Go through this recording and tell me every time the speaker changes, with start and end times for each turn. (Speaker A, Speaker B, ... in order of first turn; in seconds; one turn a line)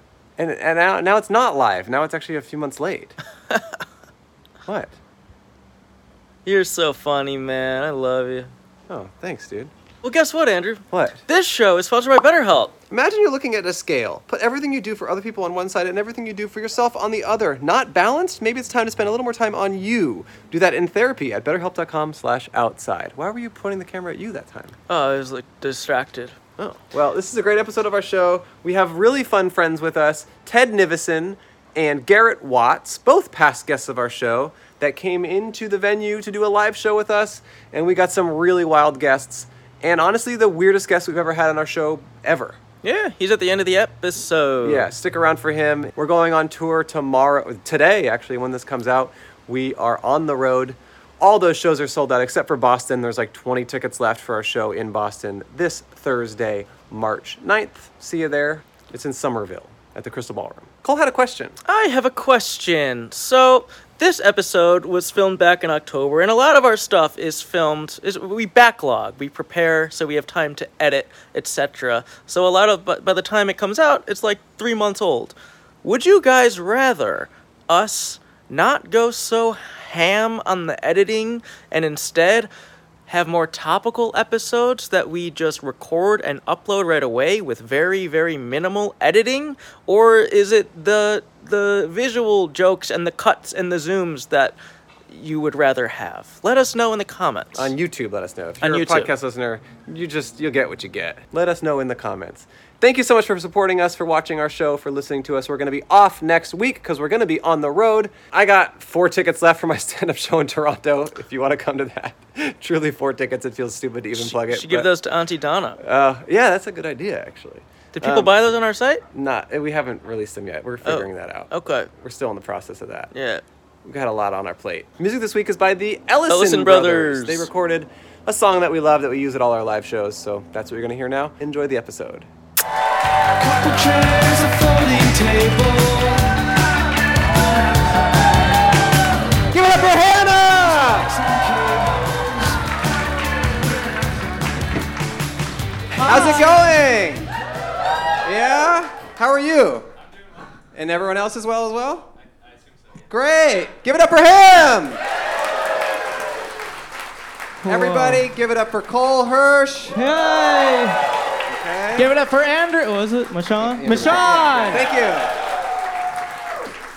Speaker A: 0.4-3.1
Speaker A: 4.7-5.0
Speaker B: 6.5-8.5
Speaker A: 8.9-9.7
Speaker B: 10.0-12.7
Speaker A: 10.9-11.2
Speaker A: 12.9-24.8
Speaker B: 24.9-26.4
Speaker A: 26.6-42.6
Speaker B: 42.8-44.9
Speaker A: 44.6-61.6
Speaker B: 61.6-82.5
Speaker B: 83.1-94.6
Speaker B: 95.1-97.7
Speaker A: 97.5-114.9
Speaker B: 98.6-99.1
Speaker B: 114.1-115.8
Speaker A: 115.8-118.3
Speaker B: 117.9-119.0
Speaker A: 119.1-123.1
Speaker B: 120.8-121.9
Speaker B: 123.1-123.4
Speaker A: 123.8-132.3
Speaker B: 126.3-127.5
Speaker C: 133.4-136.4
Speaker A: 139.5-141.1
Speaker C: 141.0-142.6
Speaker D: 145.9-146.7
Speaker A: 146.0-147.3
Speaker A: 148.2-149.9
Speaker A: 150.7-152.1
Speaker A: 153.1-155.0
Speaker D: 157.6-158.2
Speaker A: 157.6-160.0
Speaker D: 159.9-161.0
Speaker A: 161.5-162.1
Speaker D: 161.9-164.8
Speaker A: 163.6-165.3